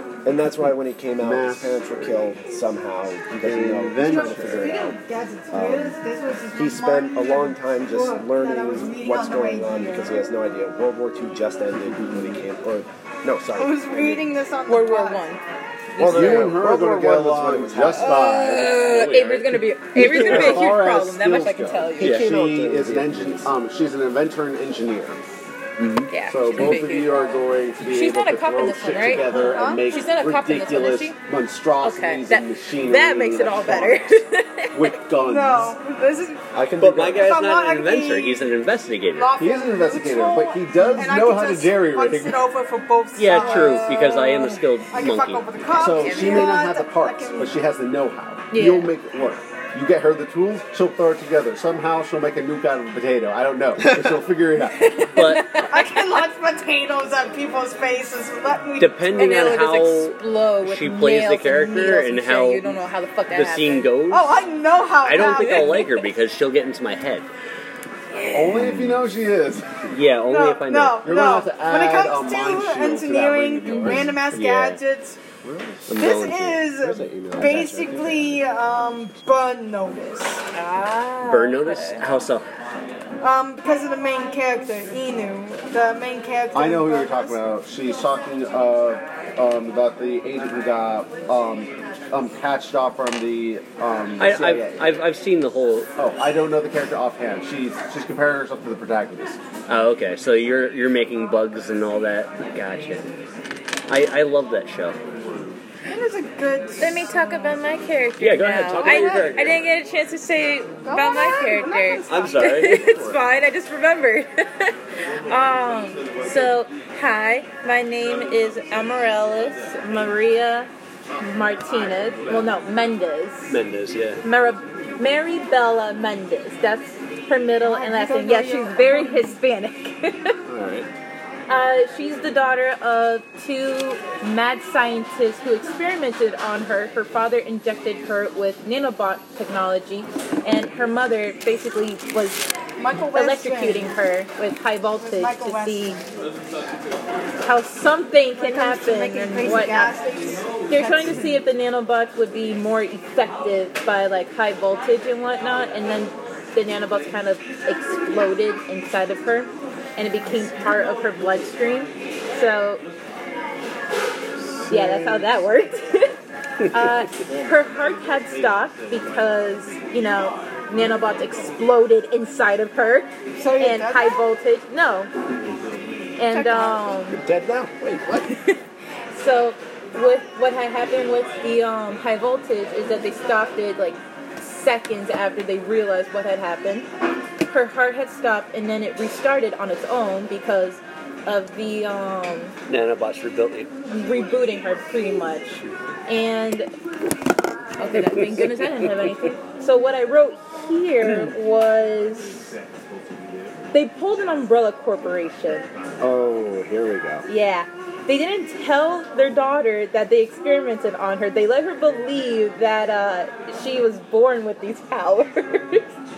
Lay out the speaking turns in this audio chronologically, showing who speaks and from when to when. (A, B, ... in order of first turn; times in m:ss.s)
0:00.2-0:05.0 A
0:01.2-0:02.4 B
0:03.4-0:04.7 B
0:04.0-0:10.2 C
0:05.5-0:06.0 A
0:06.5-0:14.3 A
0:11.8-0:12.4 B
0:13.5-0:15.3 C
0:14.7-0:15.4 D
0:16.0-0:18.5 A
0:16.0-0:16.5 E
0:16.0-0:19.4 B
0:18.0-0:18.5 C
0:18.1-0:22.2 D
0:18.5-0:20.6 E
0:20.0-0:25.2 B
0:20.1-0:20.7 A
0:22.0-0:23.5 A
0:22.0-0:22.3 E
0:25.8-0:26.7 E
0:26.1-0:31.2 D
0:26.2-0:34.2 B
0:29.2-0:30.0 C
0:31.8-0:35.0 D
0:34.7-0:35.8 B
0:35.2-0:36.4 C
0:36.5-0:37.4 A
0:36.8-0:39.3 E
0:37.2-0:38.5 C
0:39.1-0:44.3 C
0:39.4-0:42.4 B
0:40.8-0:41.2 D
0:43.2-0:45.5 E
0:43.3-0:44.6 D
0:44.9-0:47.5 C
0:45.7-0:55.0 B
0:45.9-0:46.5 D
0:48.5-0:48.9 D
0:54.8-0:56.3 D
0:55.0-0:55.7 E
0:55.5-0:59.4 C
0:58.8-1:02.8 E
0:59.2-1:03.9 D
1:03.3-1:04.3 E
1:04.1-1:06.0 C
1:05.0-1:07.3 E
1:08.1-1:08.6 D
1:08.3-1:09.9 B
1:08.5-1:09.0 E
1:09.9-1:11.1 E
1:10.3-1:15.2 C
1:11.0-1:14.2 B
1:13.7-1:14.1 D
1:14.3-1:14.8 E
1:15.4-1:18.4 A
1:15.9-1:16.6 E
1:16.0-1:20.4 C
1:20.5-1:22.0 D
1:21.2-1:22.4 E
1:23.2-1:27.5 C
1:26.5-1:34.9 B
1:34.2-1:35.9 E
1:36.0-1:39.4 B
1:39.7-1:43.1 E
1:43.9-1:45.0 E
1:45.9-1:47.6 C
1:46.8-1:54.8 D
1:48.2-1:49.6 E
1:48.8-1:49.4 C
1:50.8-1:52.5 C
1:52.1-1:53.2 E
1:55.3-2:03.6 D
2:03.5-2:04.2 E
2:04.2-2:10.4 D
2:07.6-2:09.4 C
2:10.5-2:10.9 A
2:11.5-2:22.5 D
2:22.8-2:24.0 C
2:23.1-2:26.0 D
2:25.0-2:26.0 C
2:27.4-2:30.0 D
2:28.3-2:31.4 C
2:30.7-2:42.8 D
2:44.7-2:46.2 D
2:46.6-2:46.9 E
2:46.7-2:55.1 D
2:53.4-2:54.2 C
2:56.2-2:57.2 D
2:56.3-2:57.0 C
2:57.2-2:58.2 A
2:58.0-2:58.6 D
2:59.1-3:06.9 D
3:07.5-3:12.6 D
3:12.7-3:13.7 E
3:13.9-3:16.7 D
3:17.8-3:22.5 D
3:17.9-3:19.2 E
3:21.0-3:21.3 E
3:23.7-3:25.7 D
3:26.0-3:27.3 A
3:27.3-3:35.8 D